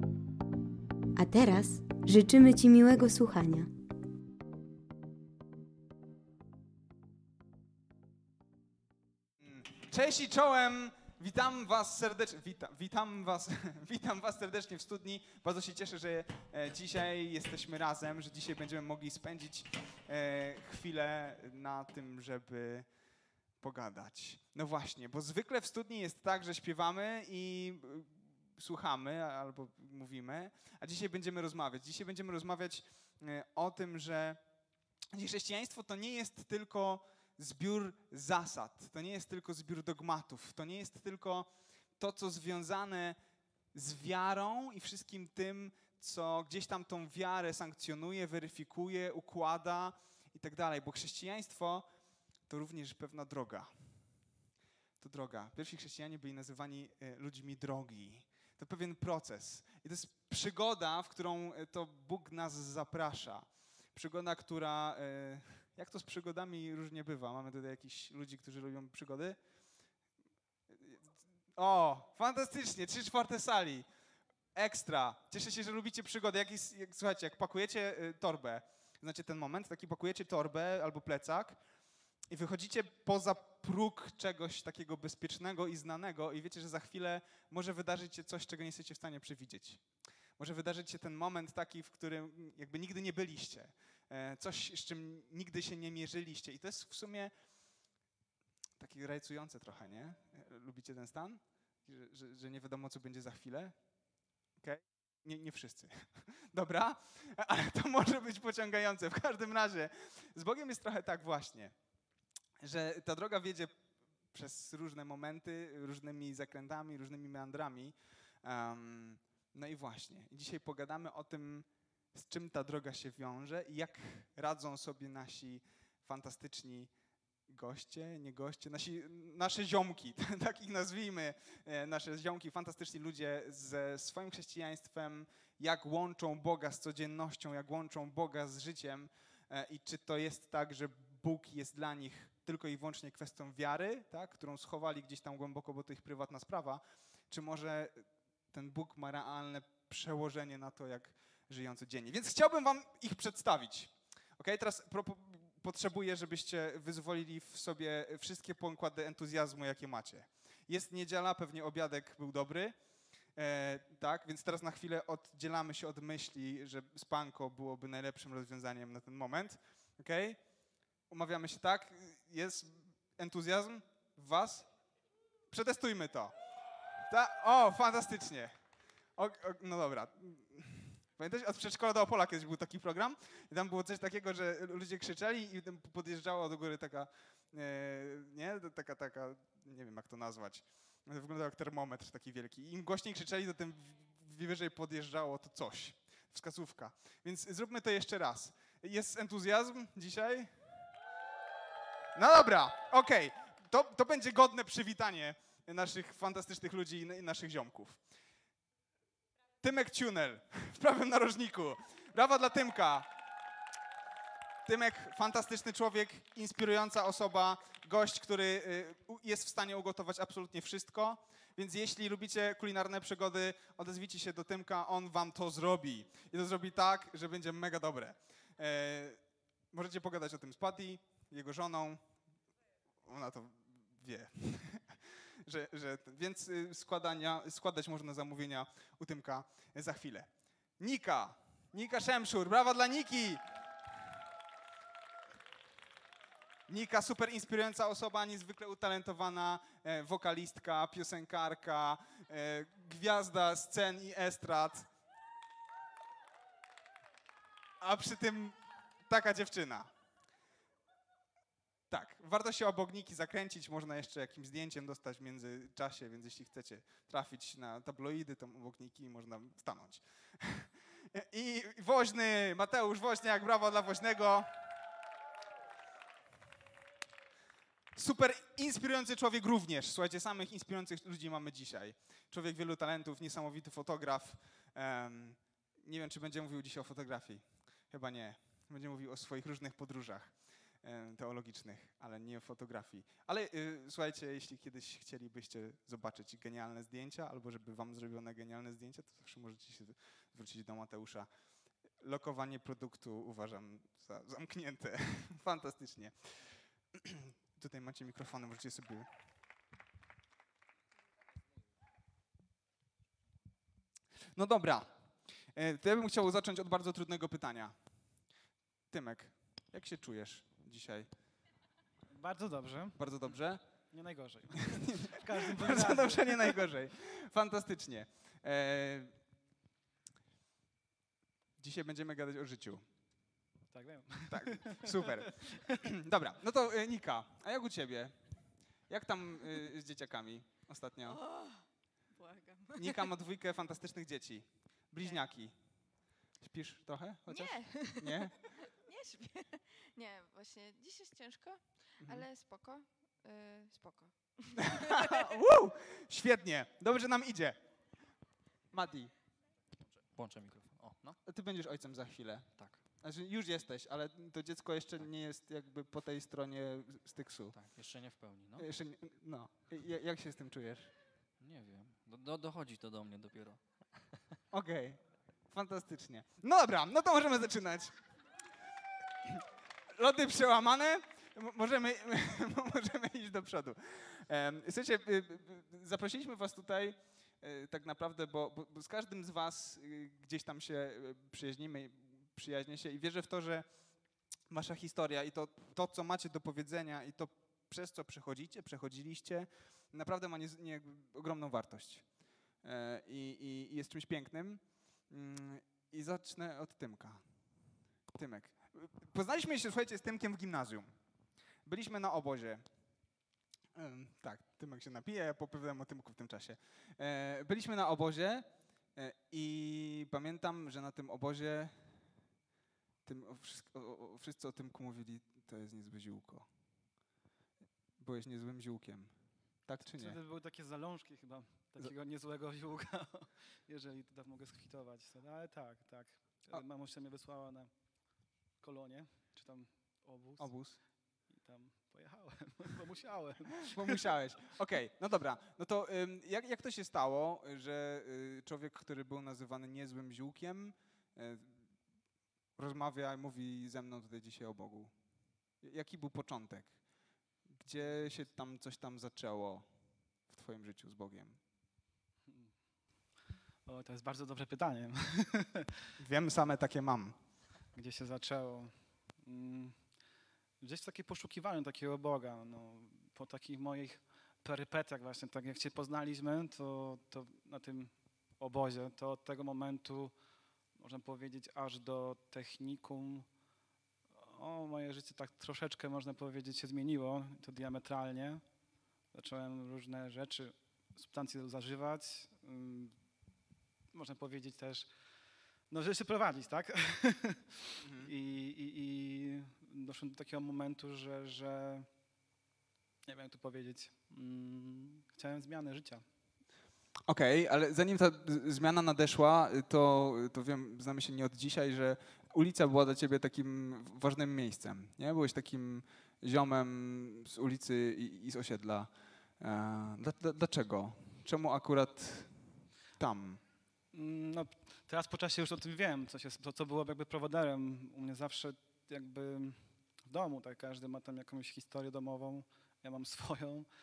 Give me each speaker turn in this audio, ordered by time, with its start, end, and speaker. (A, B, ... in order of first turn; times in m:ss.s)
0:01.1-0:03.7 A
0:09.4-0:22.9 B
0:23.6-0:34.4 B
0:35.1-0:43.2 B
0:43.7-0:51.8 B
0:52.5-0:53.9 B
0:55.0-1:09.4 B
1:10.7-1:11.0 B
1:11.5-1:13.8 B
1:14.5-1:21.6 B
1:22.3-1:29.8 B
1:30.4-1:37.3 B
1:38.8-1:43.8 B
1:44.6-1:51.7 B
1:52.6-1:53.8 B
1:54.3-2:06.9 B
2:07.5-2:42.8 B
2:43.3-2:50.4 B
2:51.1-2:54.7 B
2:55.5-2:56.3 B
2:57.1-2:58.5 B
2:59.2-3:20.6 B
3:22.1-3:28.0 B
3:29.6-3:33.1 B
3:34.6-3:49.2 B
3:49.7-3:52.0 B
3:53.0-4:03.4 B
4:06.7-4:14.9 B
4:17.8-4:19.9 B
4:21.9-4:34.6 B
4:37.9-5:01.3 B
5:02.0-5:09.1 B
5:14.4-5:14.9 B
5:15.5-5:17.8 B
5:18.9-5:21.1 B
5:22.1-5:23.0 C
5:23.0-5:23.6 B
5:23.9-5:26.6 C
5:25.4-5:29.1 B
5:31.6-5:32.8 B
5:33.7-5:35.3 C
5:34.3-5:38.2 B
5:38.9-5:41.2 B
5:41.0-5:43.1 D
5:42.8-5:45.5 B
5:46.4-5:48.4 B
5:47.3-5:55.3 D
5:54.7-5:57.6 B
5:58.7-5:59.1 B
6:00.0-6:01.2 E
6:01.2-6:02.5 B
6:03.0-6:07.6 B
6:07.5-6:08.7 E
6:08.6-6:10.9 B
6:11.4-6:14.4 E
6:14.5-6:18.0 B
6:19.2-6:33.6 B
6:34.5-6:42.0 B
6:42.6-6:47.2 B
6:48.1-6:50.9 B
6:51.6-6:52.6 B
6:53.7-7:01.8 B
7:03.0-7:06.5 B
7:08.0-7:09.1 B
7:09.6-7:10.2 B
7:09.8-7:17.7 C
7:18.6-7:20.5 C
7:20.4-7:20.8 B
7:21.3-7:24.1 C
7:23.7-7:31.6 B
7:32.6-7:34.9 B
7:35.6-7:36.7 B
7:37.6-7:39.6 B
7:40.3-7:41.4 B
7:42.3-7:42.5 C
7:43.6-7:45.7 C
7:46.0-7:47.2 B
7:47.7-7:49.8 C
7:50.6-8:00.1 C
8:00.8-8:03.2 C
8:04.2-8:08.4 C
8:09.1-8:13.0 C
8:13.9-8:14.9 C
8:15.7-8:21.9 C
8:23.1-8:26.0 C
8:27.1-8:42.4 B
8:43.0-8:43.4 B
8:43.9-8:53.7 C